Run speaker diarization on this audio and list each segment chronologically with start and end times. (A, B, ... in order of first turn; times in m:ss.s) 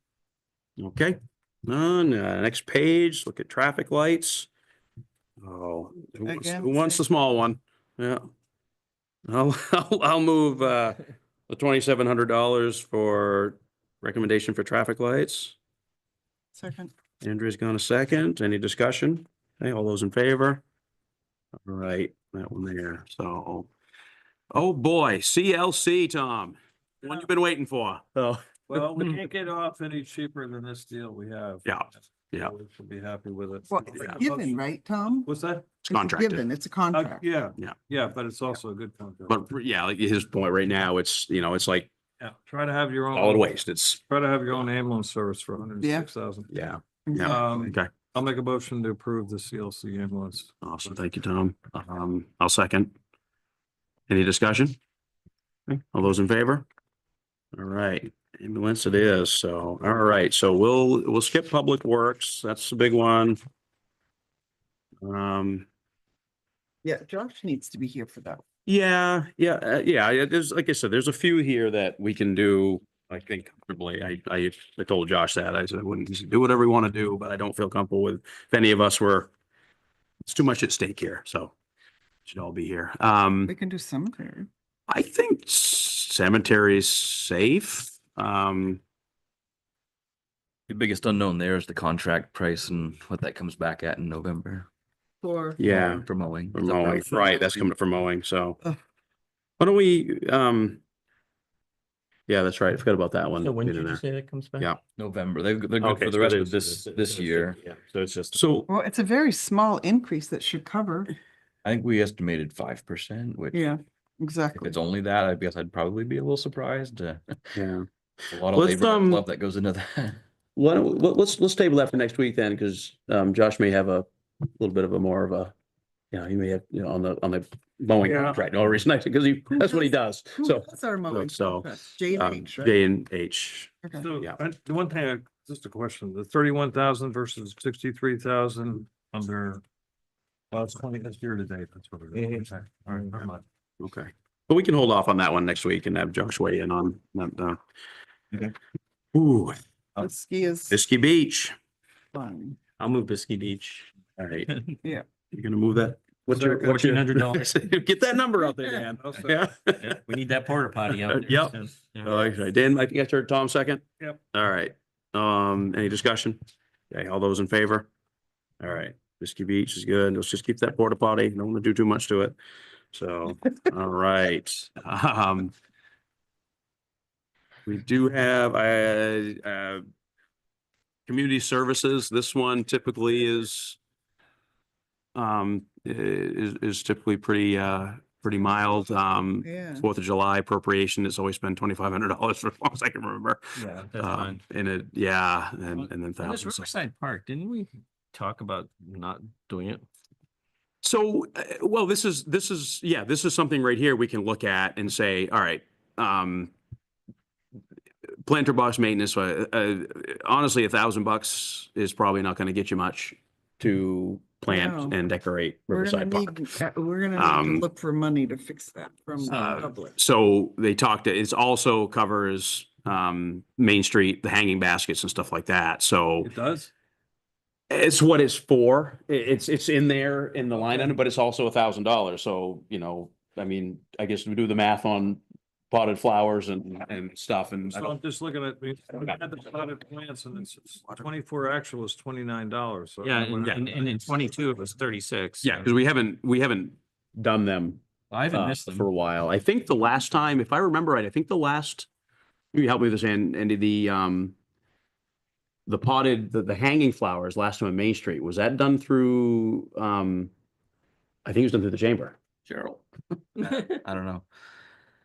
0:00.8-0:04.5 A
0:05.4-0:08.3 A
0:06.2-0:07.0 B
0:09.3-0:15.5 A
0:16.5-0:16.9 B
0:17.2-0:20.6 A
0:21.6-0:23.7 A
0:24.5-0:29.1 A
0:28.7-0:31.8 C
0:31.6-0:32.5 A
0:32.4-0:34.5 C
0:33.7-0:35.3 B
0:35.2-0:35.6 C
0:35.8-0:36.4 A
0:35.9-0:37.2 B
0:37.0-0:39.3 C
0:39.3-0:41.9 A
0:42.2-0:43.5 C
0:43.1-0:44.0 A
0:44.1-0:46.5 C
0:45.8-0:46.1 B
0:46.5-0:47.9 A
0:47.1-0:47.7 B
0:47.3-0:50.5 C
0:50.6-0:52.9 A
0:54.1-0:54.8 A
0:55.7-0:56.6 A
0:57.5-1:03.4 A
1:05.0-1:05.7 A
1:06.8-1:08.4 B
1:08.6-1:19.3 A
1:20.2-1:21.5 A
1:22.2-1:23.5 A
1:23.4-1:24.5 B
1:24.9-1:28.8 A
1:30.7-1:34.7 D
1:35.2-1:35.6 B
1:35.6-1:38.6 A
1:35.6-1:37.4 D
1:39.6-1:40.8 A
1:42.3-1:44.0 A
1:43.4-1:44.7 E
1:45.0-1:47.6 D
1:45.8-1:48.7 A
1:48.7-1:51.1 B
1:51.6-1:53.6 D
1:53.5-1:54.8 B
1:54.6-1:57.6 D
1:57.5-1:57.9 A
1:58.3-2:00.2 D
1:58.5-1:59.2 A
2:00.6-2:05.5 A
2:06.1-2:14.4 A
2:08.0-2:08.4 B
2:09.5-2:12.8 B
2:14.0-2:19.6 C
2:20.5-2:23.4 C
2:23.8-2:27.6 A
2:29.1-2:29.6 A
2:30.0-2:30.8 B
2:30.7-2:31.5 A
2:32.1-2:32.6 B
2:32.8-2:33.9 E
2:34.2-2:34.5 A
2:35.3-2:40.0 A
2:36.3-2:37.4 E
2:39.0-2:39.4 C
2:39.8-2:42.2 E
2:40.9-2:46.4 A
2:46.9-2:47.9 A
2:48.6-2:52.3 A
2:52.9-2:55.5 A
2:57.6-2:59.8 A
3:01.1-3:03.8 A
3:05.1-3:13.4 A
3:09.4-3:09.8 B
3:13.6-3:14.4 E
3:14.0-3:16.7 A
3:15.8-3:19.8 E
3:20.8-3:26.5 A
3:28.2-3:36.3 A
3:34.5-3:34.9 B
3:35.7-3:40.0 B
3:37.2-3:37.6 A
3:39.2-3:46.3 A
3:46.2-3:46.7 C
3:47.7-3:58.0 A
3:57.7-4:04.1 C
4:03.0-4:05.7 E
4:05.4-4:11.9 A
4:08.1-4:08.8 D
4:12.5-4:14.3 A
4:15.7-4:20.3 A
4:21.2-4:22.2 A
4:22.4-4:22.8 D
4:23.4-4:24.3 D